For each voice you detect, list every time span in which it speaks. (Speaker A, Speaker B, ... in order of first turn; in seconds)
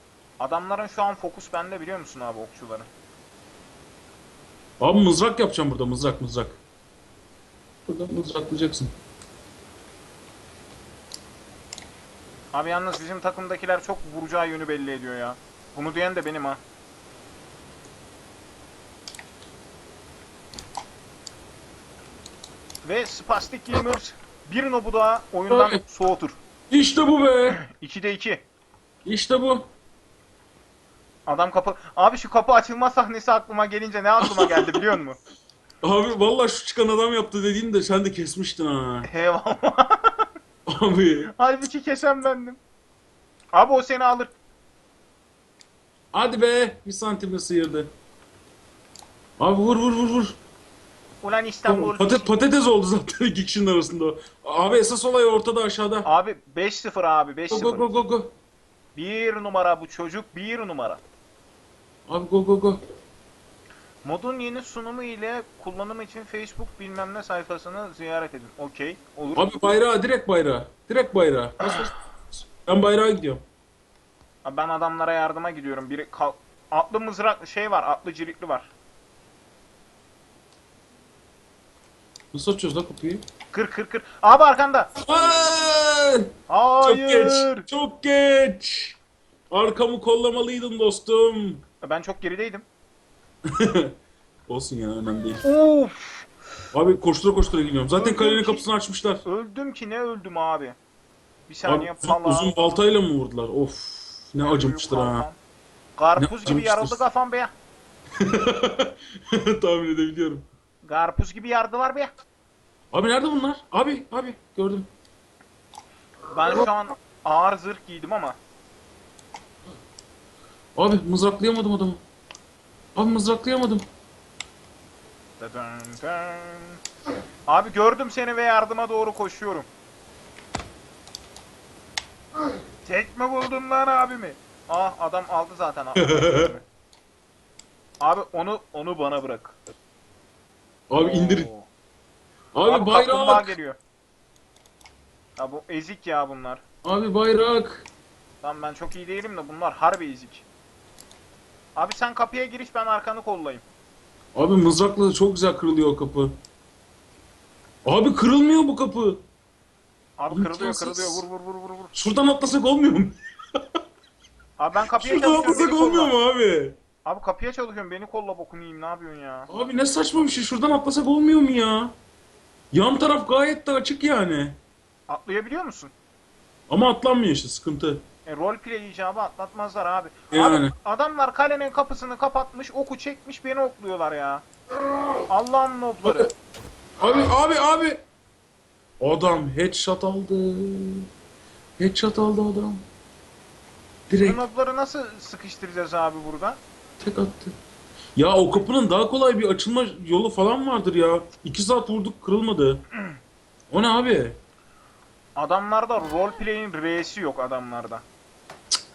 Speaker A: 0.4-2.9, 12.5-16.6, 22.8-26.4, 27.5-28.4, 31.3-35.2, 39.1-40.3, 41.3-42.6, 43.5-44.3, 51.2-52.3, 56.0-58.0, 58.9-61.0, 64.0-69.5, 74.4-78.7, 83.5-84.9, 86.5-87.7, 91.8-92.7, 95.4-96.3, 97.9-98.7, 99.2-100.8, 101.5-102.5, 104.4-105.4, 106.0-107.5, 110.8-112.1, 116.3-118.4, 125.4-126.8, 127.5-129.7, 132.8-136.6, 138.0-139.6, 141.0-141.7, 142.6-143.8, 145.4-146.6, 148.4-150.4, 151.8-153.6, 160.2-161.9, 164.6-166.1, 167.0-169.5, 175.1-175.9, 178.2-184.4, 185.3-186.3, 194.2-196.6, 205.4-208.0
Speaker B: 4.8-6.6, 7.9-8.9, 25.5-25.8, 26.7-27.6, 29.0-29.6, 34.2-34.8, 35.8-39.1, 40.7-41.3, 46.1-47.9, 49.4-50.4, 51.6-56.1, 57.5-58.3, 62.1-62.8, 69.3-73.4, 82.3-83.2, 85.0-86.3, 86.8-89.0, 89.5-91.6, 93.5-93.9, 94.5-95.4, 96.7-99.2, 101.6-105.2, 106.2-107.0, 108.2-110.5, 112.9-114.9, 120.8-122.0, 123.0-123.8, 136.0-136.5, 140.9-141.5, 142.5-143.5, 146.8-147.8, 154.3-156.3, 157.8-159.2, 160.3-161.2, 161.9-163.2, 164.9-166.8, 169.5-171.9, 172.7-174.6, 176.7-178.0, 180.3-180.7, 186.0-186.3, 187.0-188.0, 189.0-191.1, 191.8-192.8, 194.1-194.4, 197.0-197.5, 198.2-202.8, 203.7-204.4